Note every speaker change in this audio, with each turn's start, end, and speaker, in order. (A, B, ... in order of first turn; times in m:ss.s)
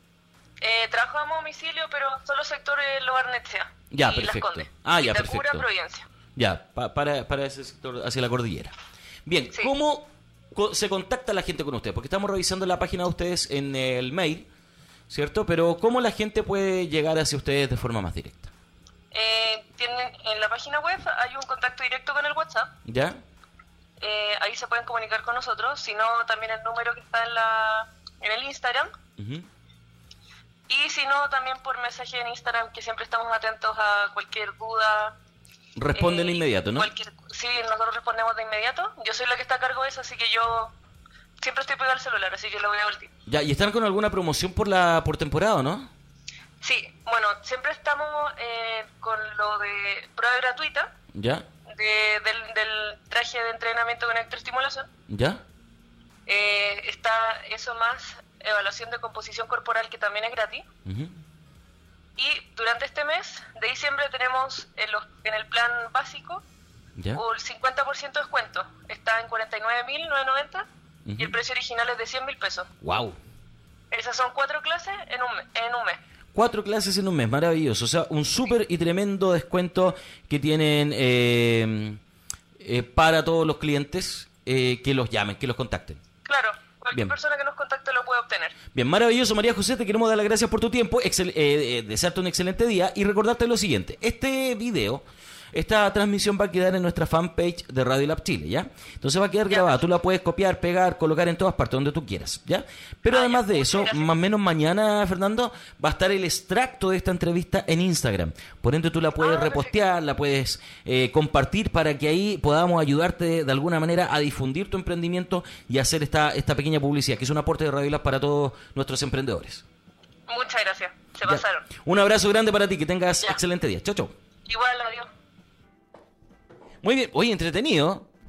0:00.6-0:06.1 A
0:03.9-0:05.7 B
0:06.4-0:14.5 B
0:15.1-0:18.5 B
0:19.1-0:22.7 A
0:22.8-0:23.2 B
0:24.0-0:28.9 A
0:29.2-0:29.5 B
0:30.7-0:35.2 A
0:35.8-0:36.9 B
0:35.9-0:40.7 A
0:41.4-0:43.1 A
0:43.3-0:45.9 B
0:46.6-0:50.9 A
0:51.1-0:51.5 B
0:51.7-0:54.9 A
0:55.1-0:55.4 B
0:56.3-1:00.6 A
1:00.8-1:01.2 B
1:02.2-1:06.4 A
1:07.0-1:07.2 B
1:07.2-1:10.7 A
1:11.0-1:11.4 B
1:11.2-1:12.7 A
1:12.8-1:13.2 B
1:13.9-1:16.0 A
1:16.3-1:22.0 B
1:22.6-1:26.0 B
1:26.2-1:28.6 A
1:28.7-1:59.6 B
1:39.5-1:39.8 A
1:43.1-1:44.1 A
1:49.2-1:49.8 A
2:00.3-2:01.7 A
2:01.2-2:04.1 B
2:04.5-2:05.1 A
2:06.8-2:08.1 B